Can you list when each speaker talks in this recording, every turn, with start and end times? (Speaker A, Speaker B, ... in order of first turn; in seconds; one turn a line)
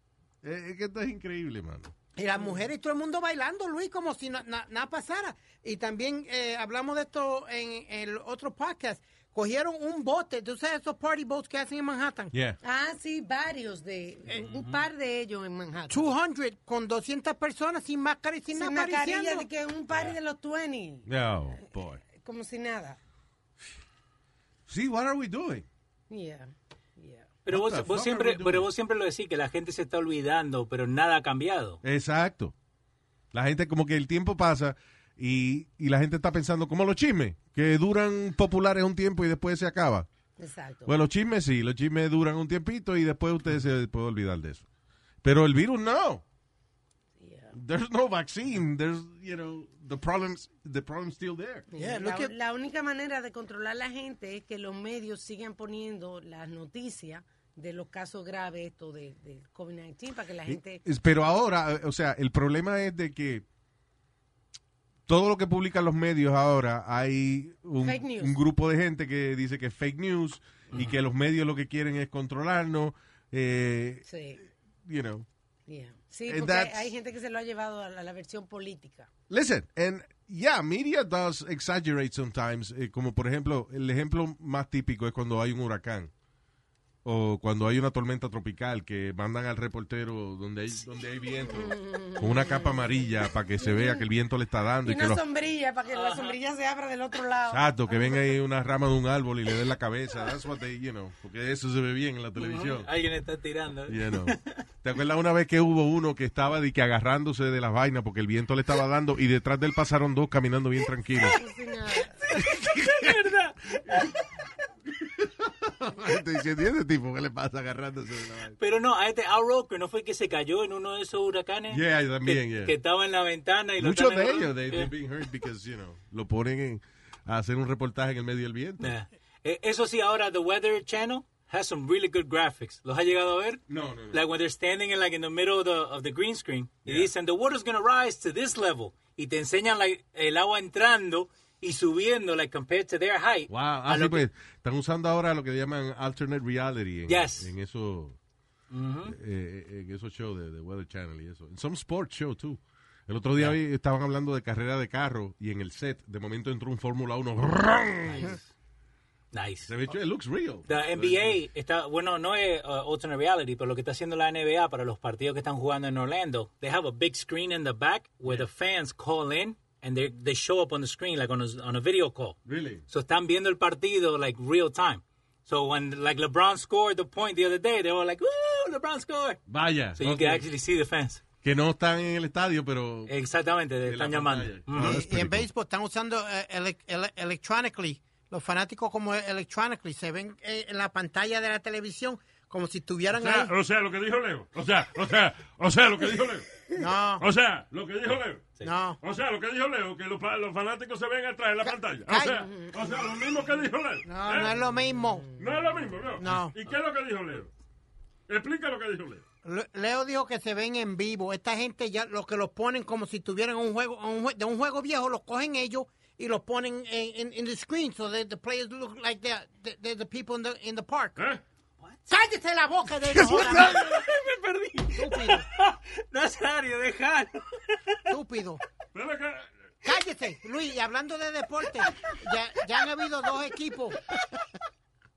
Speaker A: 0.4-1.9
Speaker B: 2.2-12.3
Speaker A: 12.3-12.6
Speaker C: 12.6-16.1
Speaker D: 14.4-14.8
Speaker B: 15.9-19.5
Speaker C: 18.5-21.1
Speaker A: 21.1-22.0
Speaker C: 21.6-23.0
Speaker A: 24.7-25.7
Speaker C: 26.1-27.3
Speaker D: 27.4-31.8
Speaker A: 27.5-28.7
Speaker A: 31.8-32.5
Speaker A: 33.3-40.1
Speaker C: 40.4-41.0
Speaker A: 40.9-44.6
Speaker A: 45.2-46.2
Speaker C: 47.2-47.5
Speaker A: 47.5-51.7
Speaker C: 51.7-60.8
Speaker B: 51.8-52.3
Speaker A: 60.5-63.5
Speaker A: 65.1-74.1
Speaker C: 67.8-68.4
Speaker C: 74.1-74.4
Speaker A: 74.8-75.3
Speaker C: 75.7-79.1
Speaker A: 76.3-76.9
Speaker A: 79.3-86.1
Speaker A: 87.0-95.2
Speaker C: 91.6-93.0
Speaker C: 93.6-94.0
Speaker C: 94.8-98.4
Speaker D: 95.9-96.4
Speaker A: 97.5-102.9
Speaker D: 102.4-104.6
Speaker A: 103.9-111.4
Speaker C: 111.3-112.2
Speaker D: 112.2-114.1
Speaker A: 112.3-114.1
Speaker A: 115.0-118.6
Speaker D: 118.6-124.9
Speaker A: 121.7-122.8
Speaker A: 123.8-128.9
Speaker D: 128.8-144.2
Speaker A: 133.7-134.2
Speaker A: 136.9-137.1
Speaker A: 143.5-148.2
Speaker D: 147.1-147.5
Speaker D: 148.7-149.2
Speaker A: 149.1-158.4
Speaker D: 158.1-158.4
Speaker D: 159.3-159.7
Speaker A: 159.7-161.4
Speaker D: 160.7-172.4
Speaker A: 172.5-172.8
Speaker D: 172.9-179.4
Speaker A: 179.5-180.5
Speaker D: 180.0-181.2
Speaker A: 181.4-183.1
Speaker D: 183.1-185.0
Speaker A: 183.8-185.5
Speaker B: 184.8-193.5
Speaker E: 193.1-196.6
Speaker B: 196.8-197.3
Speaker E: 197.2-204.5
Speaker B: 198.6-199.0
Speaker B: 201.7-202.5
Speaker B: 204.1-205.3
Speaker C: 205.0-205.6
Speaker E: 205.4-207.5
Speaker B: 206.2-206.6
Speaker E: 208.3-209.2
Speaker B: 209.4-221.2
Speaker E: 221.2-221.4
Speaker B: 222.1-224.0
Speaker A: 223.1-223.9
Speaker D: 223.2-228.1
Speaker B: 224.9-225.5
Speaker B: 228.1-228.6
Speaker E: 228.9-229.5
Speaker B: 229.8-234.1